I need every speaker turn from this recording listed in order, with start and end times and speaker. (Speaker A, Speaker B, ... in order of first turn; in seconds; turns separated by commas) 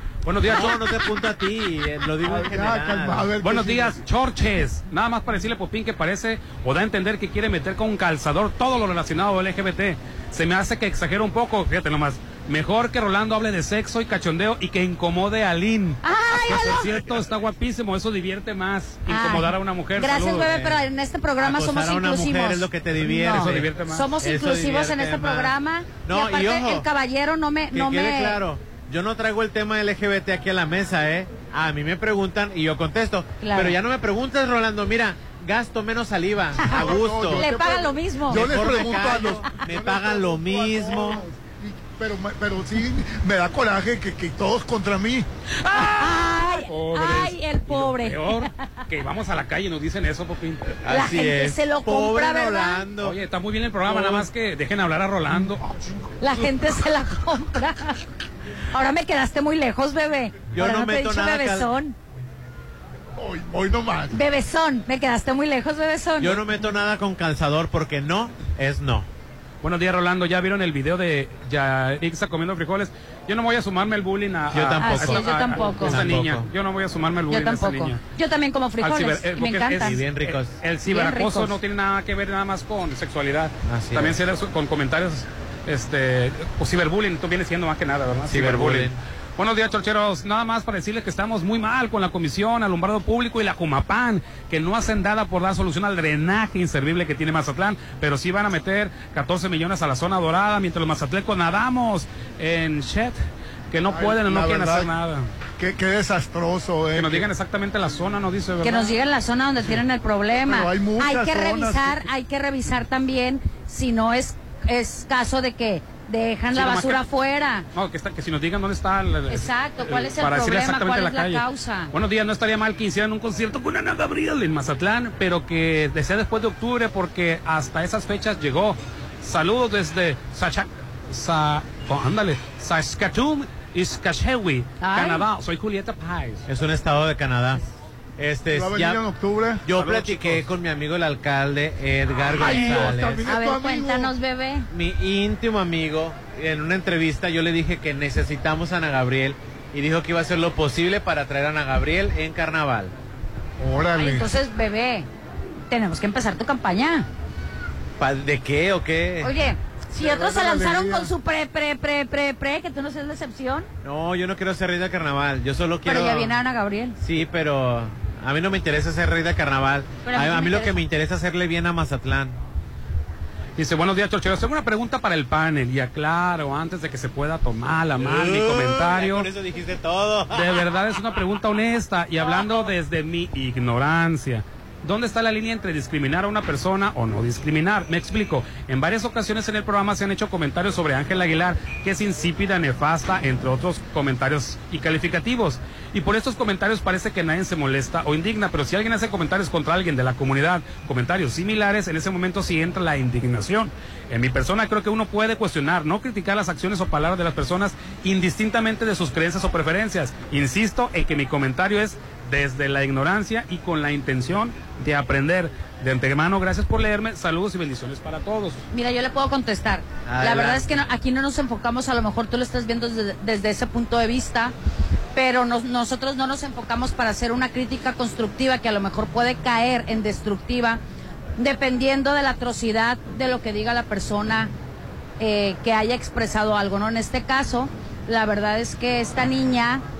Speaker A: 0.2-0.8, Speaker B: 0.4-3.3, Speaker C: 2.2-4.0, Speaker A: 3.4-20.6, Speaker D: 16.0-16.9, Speaker D: 19.1-28.4, Speaker B: 21.4-25.5, Speaker A: 23.2-24.1, Speaker B: 26.1-26.9, Speaker B: 27.7-37.5, Speaker D: 33.4-33.8, Speaker D: 36.6-39.3, Speaker C: 36.6-45.3, Speaker B: 38.3-41.2, Speaker A: 45.6-50.7, Speaker D: 45.7-48.5, Speaker B: 50.8-53.1, Speaker D: 50.9-52.8, Speaker A: 53.0-55.8, Speaker B: 53.8-54.3, Speaker D: 56.2-58.0, Speaker D: 58.7-61.9, Speaker B: 60.5-61.7, Speaker C: 63.2-64.2, Speaker D: 64.1-66.4, Speaker B: 66.2-69.1, Speaker A: 69.6-78.0, Speaker B: 74.5-76.5, Speaker D: 74.8-76.0, Speaker D: 77.3-79.9, Speaker A: 78.8-103.2, Speaker B: 79.8-80.5, Speaker D: 80.9-81.5, Speaker B: 83.7-84.2, Speaker B: 88.3-88.9, Speaker A: 103.7-105.3, Speaker C: 103.9-104.9, Speaker C: 105.6-107.3, Speaker A: 106.9-108.9, Speaker D: 108.6-117.7, Speaker C: 110.4-112.1, Speaker A: 116.5-117.0, Speaker A: 117.7-136.4, Speaker D: 119.3-121.9, Speaker D: 134.8-135.2, Speaker B: 136.5-137.6, Speaker B: 138.2-139.0, Speaker C: 138.5-139.6, Speaker B: 139.6-143.3, Speaker A: 139.7-140.4, Speaker C: 142.3-144.1, Speaker A: 142.4-142.8, Speaker D: 143.3-144.7, Speaker B: 144.7-152.9, Speaker C: 153.6-154.3, Speaker D: 153.9-155.1, Speaker D: 155.7-157.1, Speaker B: 158.0-159.3, Speaker D: 159.2-163.7, Speaker C: 159.9-161.1, Speaker B: 163.8-166.4, Speaker D: 165.8-167.0, Speaker B: 167.0-172.4, Speaker D: 170.0-170.8, Speaker A: 173.6-179.3, Speaker B: 178.0-180.8, Speaker A: 180.3-218.6, Speaker D: 218.7-224.5, Speaker B: 220.1-220.8, Speaker D: 225.1-230.8, Speaker D: 231.4-234.5, Speaker D: 235.2-239.8